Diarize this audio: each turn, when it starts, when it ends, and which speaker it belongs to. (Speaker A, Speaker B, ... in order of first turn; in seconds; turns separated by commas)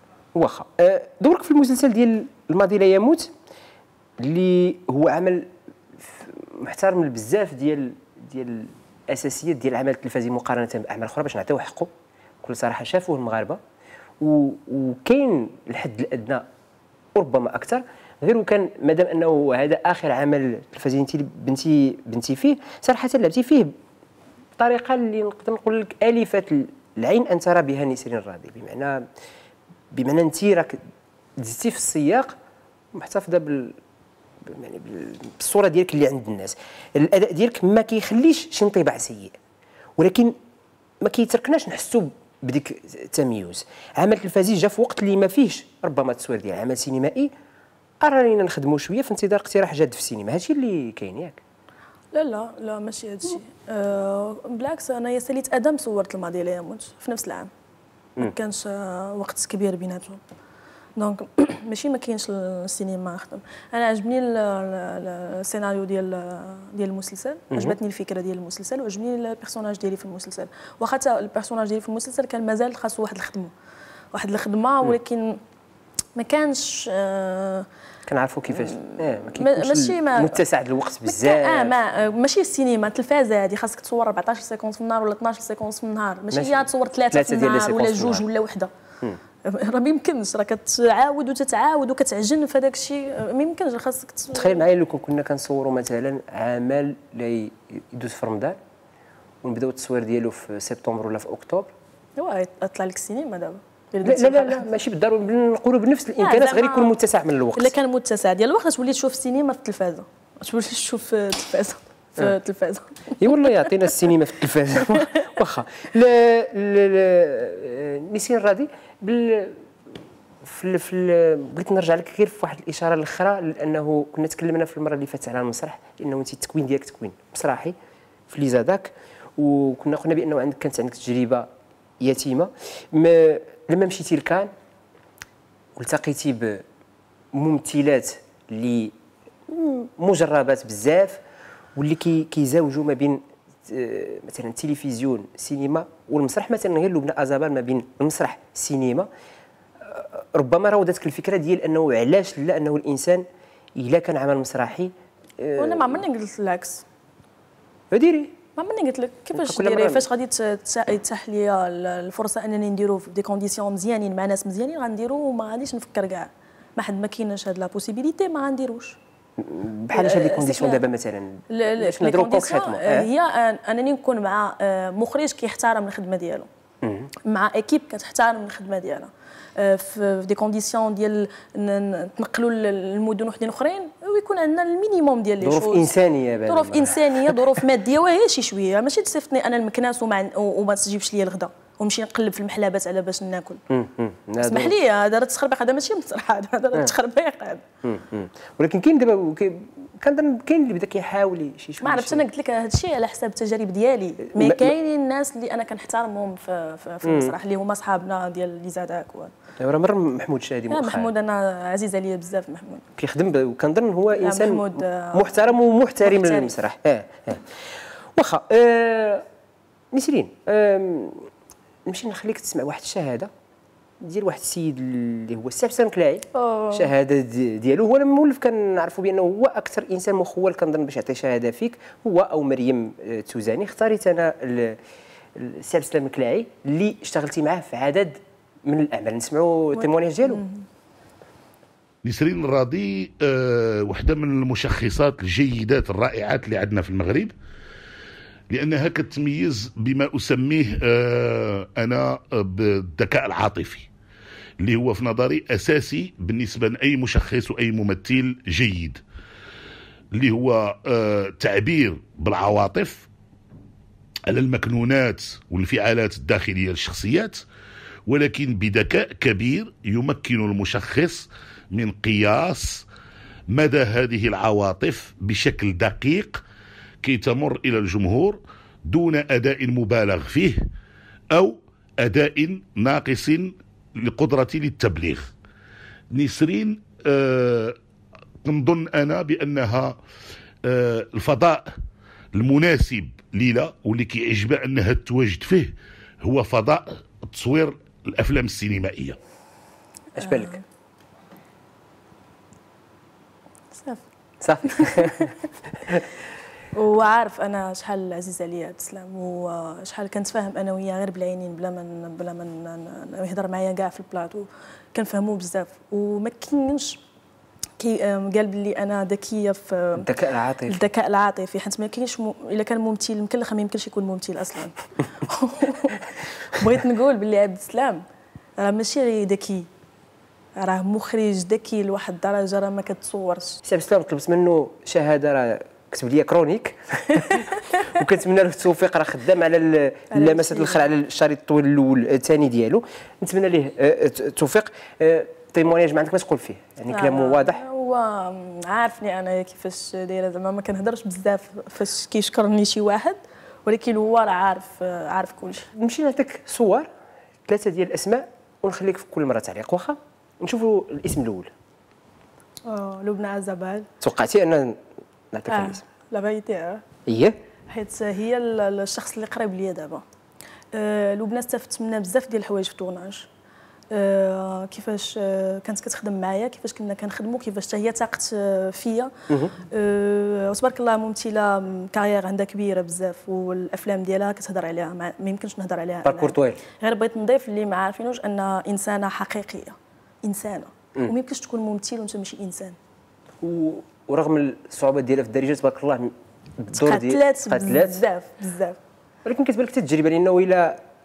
Speaker A: 0.3-3.3, Speaker A: 4.2-11.9, Speaker A: 12.4-13.6, Speaker A: 14.2-16.5, Speaker A: 17.2-23.8, Speaker A: 24.6-29.1, Speaker A: 29.9-30.8, Speaker A: 31.4-32.4, Speaker A: 32.9-33.8, Speaker A: 34.4-39.4, Speaker A: 40.0-40.4, Speaker A: 41.0-47.3, Speaker A: 48.0-51.4, Speaker B: 52.1-57.5, Speaker B: 58.2-60.2, Speaker B: 61.0-73.5, Speaker A: 67.5-67.8, Speaker B: 74.1-75.4, Speaker B: 76.2-77.7, Speaker A: 78.1-81.8, Speaker B: 78.5-80.4, Speaker B: 81.0-88.7, Speaker A: 86.3-88.2, Speaker B: 89.5-94.6, Speaker A: 94.3-98.6, Speaker A: 99.4-101.7, Speaker B: 102.2-104.7, Speaker A: 104.0-107.8, Speaker B: 106.2-107.0, Speaker B: 107.5-113.5, Speaker A: 113.2-119.6, Speaker B: 114.8-115.3, Speaker A: 120.4-127.8, Speaker A: 128.3-131.5, Speaker A: 132.0-134.5, Speaker A: 135.8-136.6, Speaker A: 137.3-139.0, Speaker A: 139.5-141.2, Speaker A: 141.8-149.1, Speaker A: 149.8-153.2, Speaker A: 153.8-156.0, Speaker B: 155.6-156.8, Speaker A: 157.9-158.4, Speaker B: 158.6-169.0, Speaker A: 159.3-160.1, Speaker A: 169.4-173.1, Speaker B: 169.9-170.8, Speaker B: 171.5-176.5, Speaker A: 176.8-177.1, Speaker B: 177.2-185.9, Speaker A: 185.4-187.6, Speaker B: 186.5-193.6, Speaker A: 193.7-194.7, Speaker B: 194.4-197.6, Speaker A: 197.8-202.2, Speaker B: 201.8-209.3, Speaker A: 204.3-204.7, Speaker A: 207.0-207.4, Speaker A: 209.6-211.1, Speaker B: 210.7-212.9, Speaker A: 213.0-217.5, Speaker B: 214.2-216.6, Speaker A: 218.2-219.3, Speaker A: 219.9-221.3, Speaker A: 221.9-223.3, Speaker A: 224.0-234.8, Speaker B: 226.3-226.9, Speaker A: 235.3-240.4, Speaker B: 240.3-240.6, Speaker C: 242.0-247.3, Speaker C: 248.5-253.9, Speaker C: 254.6-259.0, Speaker C: 260.1-263.1, Speaker C: 264.3-267.4, Speaker C: 268.1-272.9, Speaker C: 273.5-276.4, Speaker C: 277.0-280.6, Speaker C: 281.3-285.3, Speaker C: 286.1-287.8, Speaker C: 288.4-290.0, Speaker C: 290.6-291.7, Speaker C: 292.3-299.2, Speaker A: 300.2-300.6, Speaker B: 300.2-300.6, Speaker B: 303.7-304.0, Speaker A: 304.4-305.3, Speaker B: 304.7-305.3, Speaker B: 306.7-317.0, Speaker B: 317.8-320.1, Speaker A: 320.0-320.9, Speaker B: 320.7-328.0, Speaker B: 328.6-329.7, Speaker B: 330.6-333.6, Speaker A: 333.6-347.6, Speaker B: 337.3-337.5, Speaker B: 340.1-340.9, Speaker B: 346.9-355.7, Speaker A: 355.7-356.9, Speaker A: 357.5-361.5, Speaker B: 362.7-363.9, Speaker A: 364.0-364.8, Speaker A: 365.3-365.8, Speaker B: 365.5-366.8, Speaker A: 367.1-367.4, Speaker B: 367.7-370.0, Speaker B: 370.7-373.3, Speaker B: 373.9-392.8, Speaker A: 386.0-386.6, Speaker A: 393.4-398.0, Speaker B: 396.7-398.8, Speaker A: 399.2-400.8